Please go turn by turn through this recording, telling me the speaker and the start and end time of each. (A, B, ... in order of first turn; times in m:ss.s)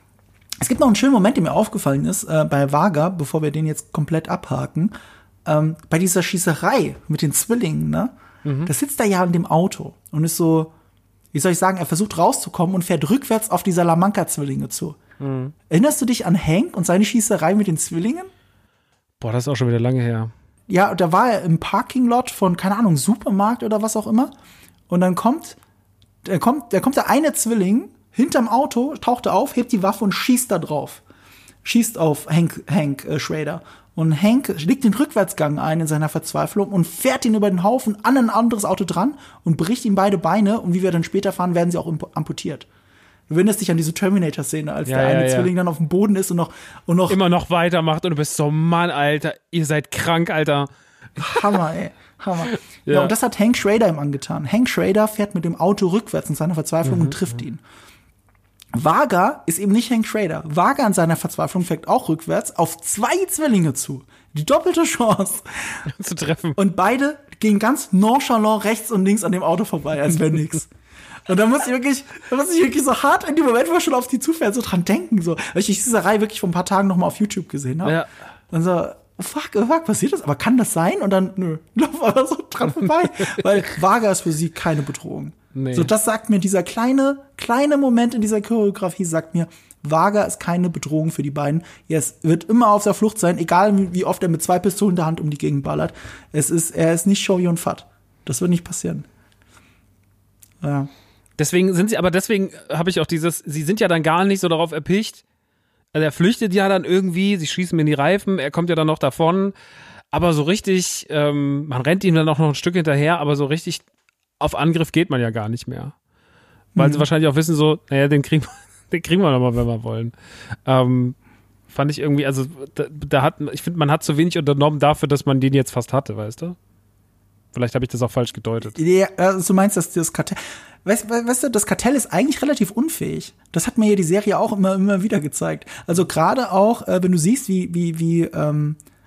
0:00.6-0:04.9 A
0:05.4-0:08.1 A
0:08.4-0:08.7 B
0:08.6-0:10.7 A
0:11.3-0:15.0 A
0:15.2-0:15.5 B
0:15.7-0:18.3 A
0:19.2-0:20.3 B
0:20.7-0:24.3 A
0:24.9-0:25.6 A
0:26.2-0:31.0 A
0:31.6-0:42.7 A
0:43.3-0:47.2 A
0:44.8-0:45.5 B
0:47.1-0:50.7 B
0:51.2-0:57.6 A
0:52.8-0:53.1 B
0:56.8-0:57.2 B
0:58.7-1:05.8 A
1:05.8-1:06.6 B
1:06.6-1:10.7 A
1:11.3-1:18.0 A
1:17.8-1:18.1 B
1:18.5-1:39.0 A
1:25.5-1:25.9 B
1:40.6-1:40.9 A
1:41.4-1:45.2 B
1:45.9-1:49.5 B
1:50.1-1:53.8 B
1:54.4-1:55.9 B
1:56.7-1:57.1 A
1:56.8-2:00.1 B
2:00.6-2:01.2 B
2:01.7-2:06.6 B
2:07.5-2:08.8 B
2:08.7-2:18.8 A